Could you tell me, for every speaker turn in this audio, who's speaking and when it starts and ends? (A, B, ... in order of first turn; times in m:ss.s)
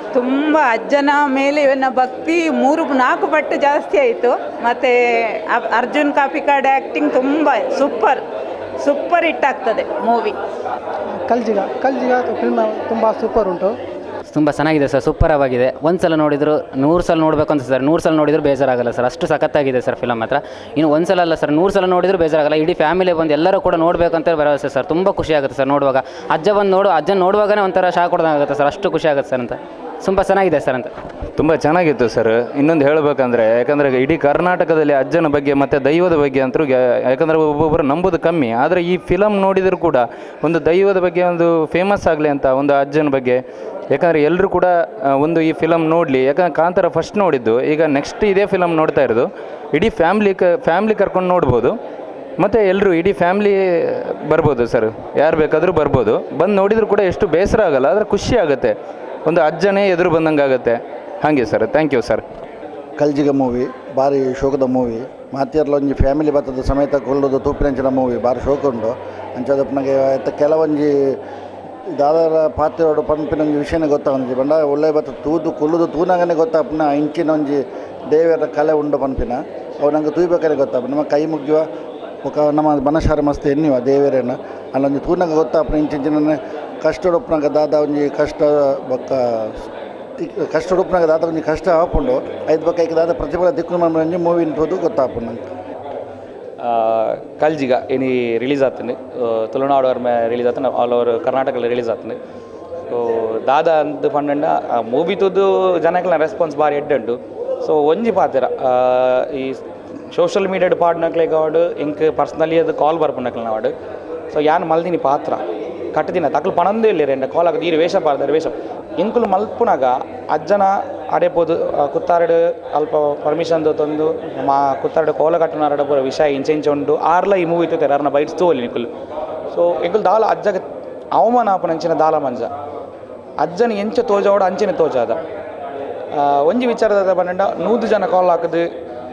0:00.1-0:04.9 A
0:05.5-0:08.2 A
0:08.8-0:10.3 A
0:11.2-0:13.7 B
0:14.3-0:30.9 C
0:31.4-0:51.8 D
0:52.4-0:58.7 D
0:59.2-1:02.2 D
1:03.0-1:10.9 E
1:12.0-1:21.6 E
1:22.2-1:29.4 E
1:30.2-1:35.5 E
1:36.6-1:42.2 F
1:42.9-1:49.6 F
1:50.1-1:53.7 F
1:54.3-1:55.4 F
1:55.9-2:08.9 F
2:09.5-2:12.5 F
2:13.4-2:15.2 F
2:16.2-2:18.7 F